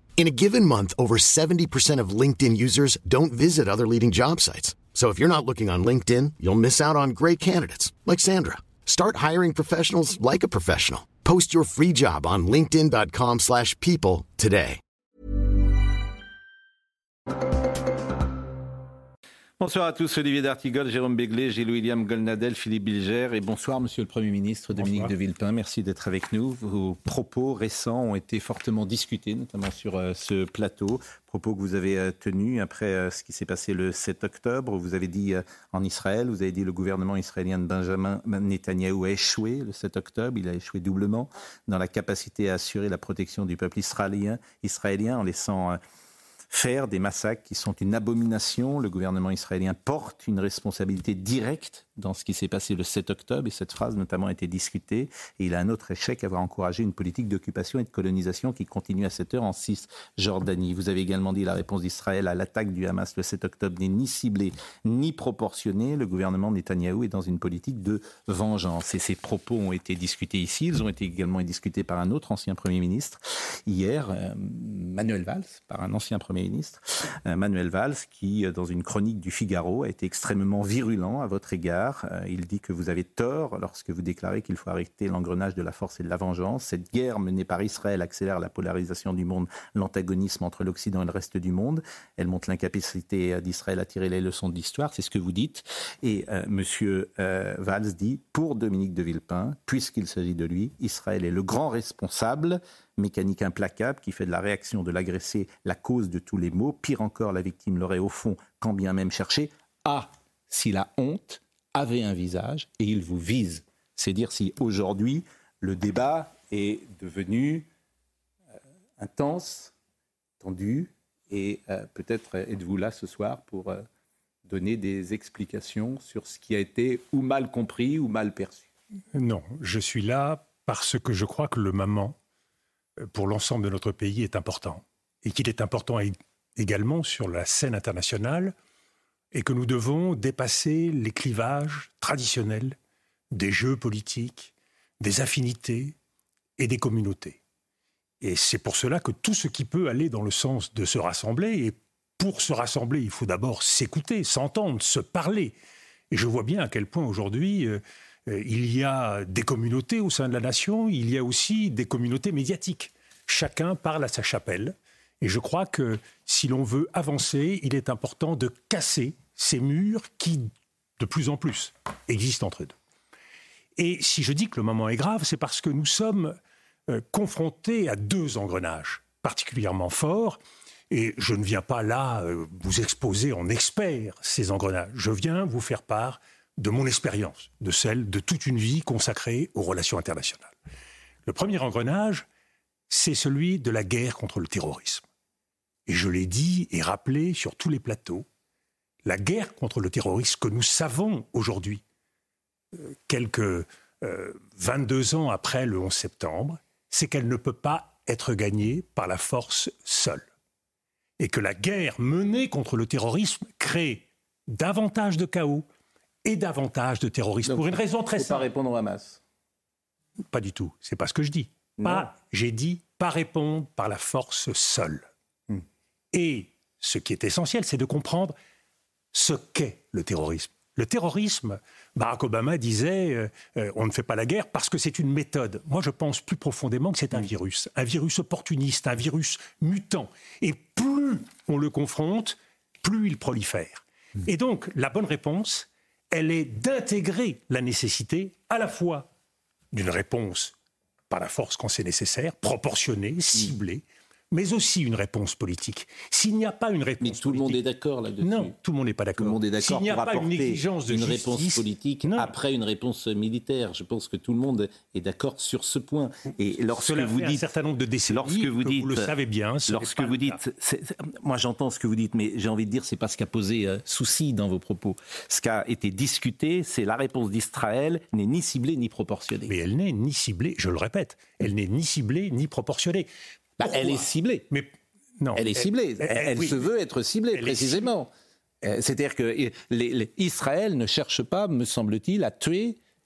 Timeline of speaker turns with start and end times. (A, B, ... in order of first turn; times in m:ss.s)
0:00.2-0:14.8 A
0:19.6-0:45.8 B
0:24.8-0:25.1 C
0:46.5-1:57.7 B
1:59.0-1:59.7 B
2:00.4-2:03.8 B
2:04.5-2:08.7 B
2:09.1-2:12.2 C
2:13.1-2:18.5 C
2:19.3-2:22.8 C
2:23.3-2:26.0 C
2:26.6-2:27.4 C
2:28.2-2:35.6 C
2:36.1-2:50.5 C
2:51.0-2:52.8 C
2:53.8-2:56.4 C
2:56.9-3:00.4 C
3:00.9-3:10.5 C
3:11.3-3:12.3 C
3:12.9-3:15.0 C
3:15.9-3:18.3 C
3:19.0-3:21.8 C
3:22.8-3:30.3 C
3:31.2-3:35.6 C
3:36.2-3:38.5 C
3:37.4-3:39.2 B
3:40.3-3:45.1 C
3:41.8-3:42.1 B
3:46.1-3:48.4 C
3:49.1-4:09.1 C
4:09.7-4:10.5 C
4:11.1-4:17.6 C
4:17.0-4:18.5 B
4:18.2-4:22.4 C
4:19.2-4:27.4 B
4:26.8-4:30.4 C
4:28.1-4:29.1 B
4:29.7-4:39.5 B
4:39.5-4:43.1 C
4:43.6-4:44.5 B
4:43.6-4:46.7 C
4:45.4-4:48.1 B
4:47.3-4:47.9 C
4:48.6-4:52.8 B